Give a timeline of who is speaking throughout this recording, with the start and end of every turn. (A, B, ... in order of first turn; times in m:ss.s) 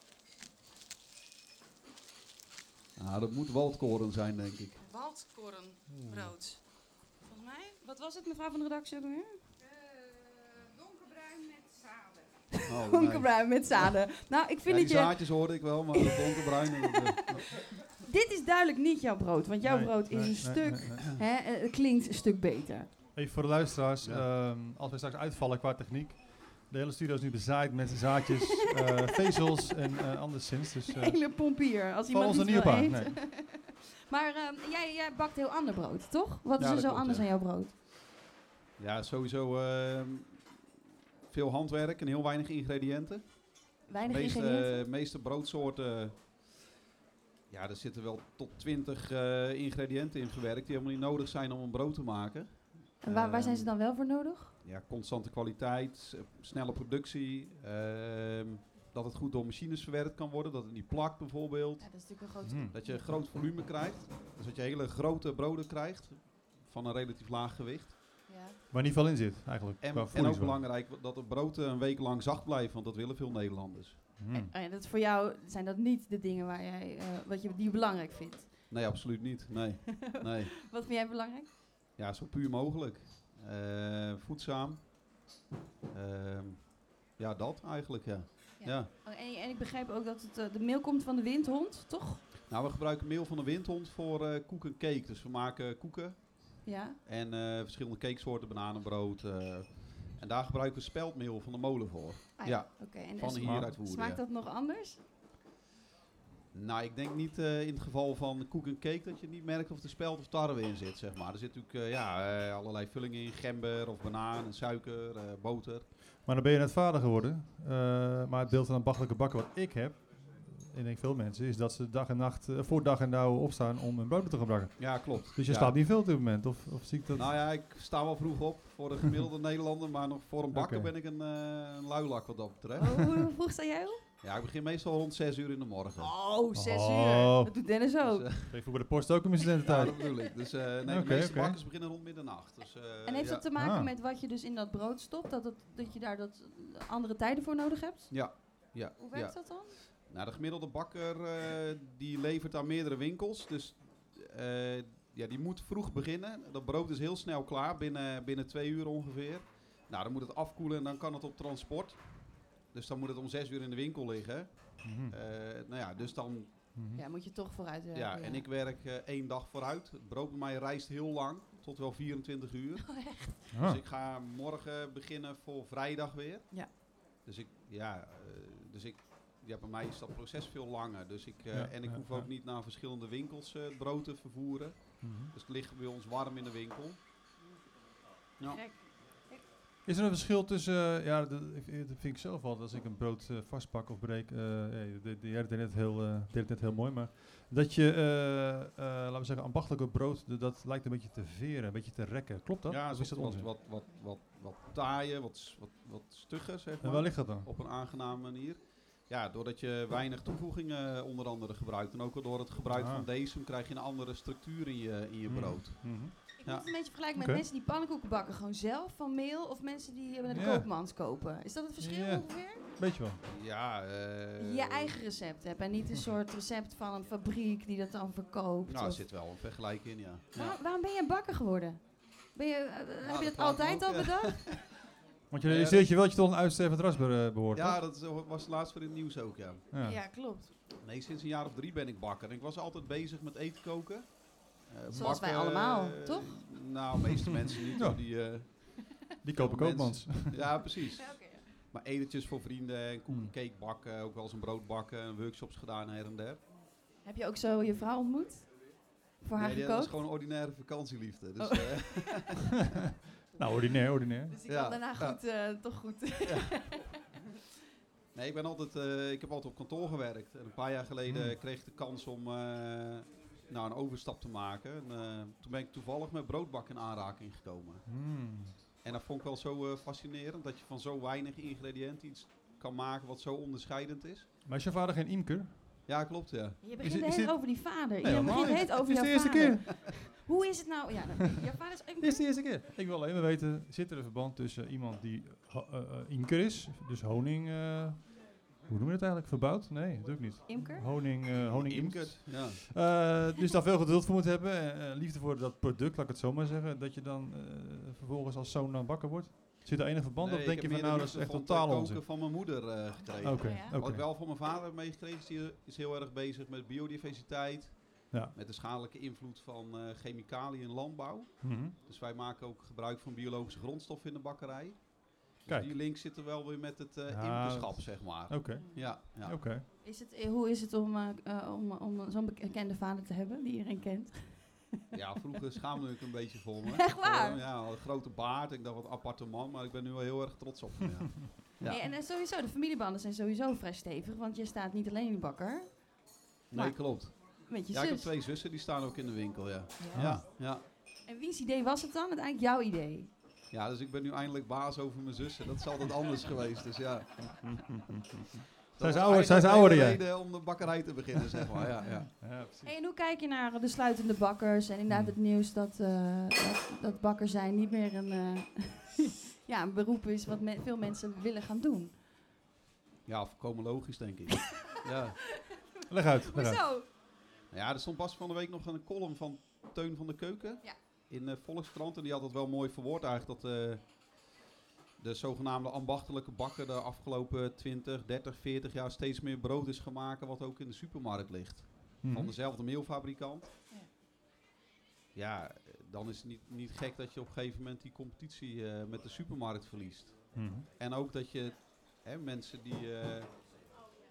0:03.0-0:04.8 A
0:04.8-0:09.6 B
0:05.9-0:06.2 C
0:12.5-0:17.0 B
0:12.7-0:13.9 A
0:14.7-0:17.5 A
0:18.0-0:22.9 B
0:19.6-0:21.0 C
0:23.2-0:31.2 C
0:24.0-0:24.3 A
0:30.9-0:37.7 B
0:32.1-0:33.2 C
0:36.6-0:37.3 A
0:38.8-0:40.6 A
0:41.3-0:46.2 A
0:43.9-0:44.9 B
0:47.5-0:53.8 A
0:53.0-0:54.6 B
0:54.6-1:02.1 A
1:01.8-1:03.2 B
1:02.4-1:02.7 C
1:02.7-1:08.0 A
1:08.3-1:08.6 B
1:08.7-1:10.6 C
1:09.8-1:14.1 A
1:14.2-1:14.5 C
1:14.3-1:19.0 B
1:18.7-1:20.5 A
1:20.0-1:21.5 B
1:22.0-1:25.3 A
1:25.9-1:28.9 A
1:28.6-1:32.2 B
1:32.5-1:44.2 A
1:36.6-1:37.0 B
1:42.4-1:45.0 B
1:43.4-1:43.7 C
1:46.5-1:55.9 A
1:56.1-2:07.3 C
2:04.8-2:05.9 A
2:07.2-2:12.9 A
2:10.5-2:10.9 C
2:12.8-2:14.0 B
2:14.2-2:16.2 A
2:16.0-2:18.4 B
2:16.5-2:17.7 C
2:18.0-2:18.6 A
2:18.5-2:19.9 C
2:19.6-2:23.5 A
2:19.6-2:20.3 B
2:20.8-2:21.6 C
2:23.0-2:29.8 B
2:23.6-2:23.9 C
2:28.1-2:46.7 A
2:44.8-2:45.2 C
2:46.5-2:48.5 B
2:46.8-2:47.0 C
2:47.9-3:07.0 A
2:52.8-2:53.4 B
2:53.6-2:53.8 C
3:01.5-3:02.3 C
3:05.0-3:05.3 C
3:08.4-3:08.7 A
3:08.5-3:09.4 B
3:09.8-3:23.5 C
3:22.7-3:36.7 A
3:26.8-3:27.5 C
3:32.7-3:33.1 C
3:35.3-3:36.2 C
3:36.4-3:42.6 B
3:37.1-3:37.4 C
3:40.3-3:40.7 C
3:41.8-3:43.2 C
3:43.3-3:45.0 A
3:44.4-3:49.0 B
3:48.6-3:50.6 A
3:50.4-3:54.5 B
3:53.0-3:54.7 A
3:55.3-3:57.8 C
3:55.4-3:55.9 A
3:57.5-3:59.6 A
3:59.7-4:00.0 C
3:59.8-4:00.5 B
4:00.8-4:16.4 A
4:05.0-4:06.5 B
4:07.3-4:08.0 C
4:08.6-4:10.6 C
4:11.0-4:11.5 B
4:13.1-4:13.3 C
4:17.0-4:20.0 B
4:19.4-4:22.4 A
4:21.4-4:22.3 B
4:23.3-4:24.4 C
4:23.4-4:26.9 B
4:24.4-4:25.2 A
4:28.1-4:37.8 A
4:31.1-4:31.4 C
4:37.9-4:38.6 C
4:38.8-4:44.3 A
4:44.4-4:45.9 C
4:45.9-4:46.8 A
4:46.6-4:52.3 B
4:46.8-4:49.7 C
4:48.1-4:48.5 A
4:52.0-5:12.5 C
5:00.5-5:01.2 B
5:01.2-5:02.6 A
5:09.7-5:29.4 A
5:13.2-5:13.8 B
5:13.2-5:14.0 C
5:18.1-5:18.4 C
5:21.4-5:21.8 C
5:25.5-5:25.8 C
5:27.1-5:29.6 C
5:28.5-5:29.3 B
5:29.8-5:34.8 B
5:34.9-5:41.9 A
5:36.8-5:37.4 B
5:41.7-5:48.1 B
5:46.5-5:50.6 A
5:49.8-5:53.1 B
5:49.9-5:50.2 C
5:53.5-5:57.6 A
5:57.3-6:00.7 C
5:58.7-6:02.1 A
6:01.8-6:02.7 C
6:02.6-6:12.0 B
6:04.9-6:05.1 C
6:13.1-6:15.3 A
6:15.9-6:16.8 C
6:16.3-6:16.9 B
6:17.5-6:24.1 A
6:25.0-6:33.5 A
6:32.0-6:32.3 C
6:35.2-6:43.4 A
6:40.3-6:40.7 C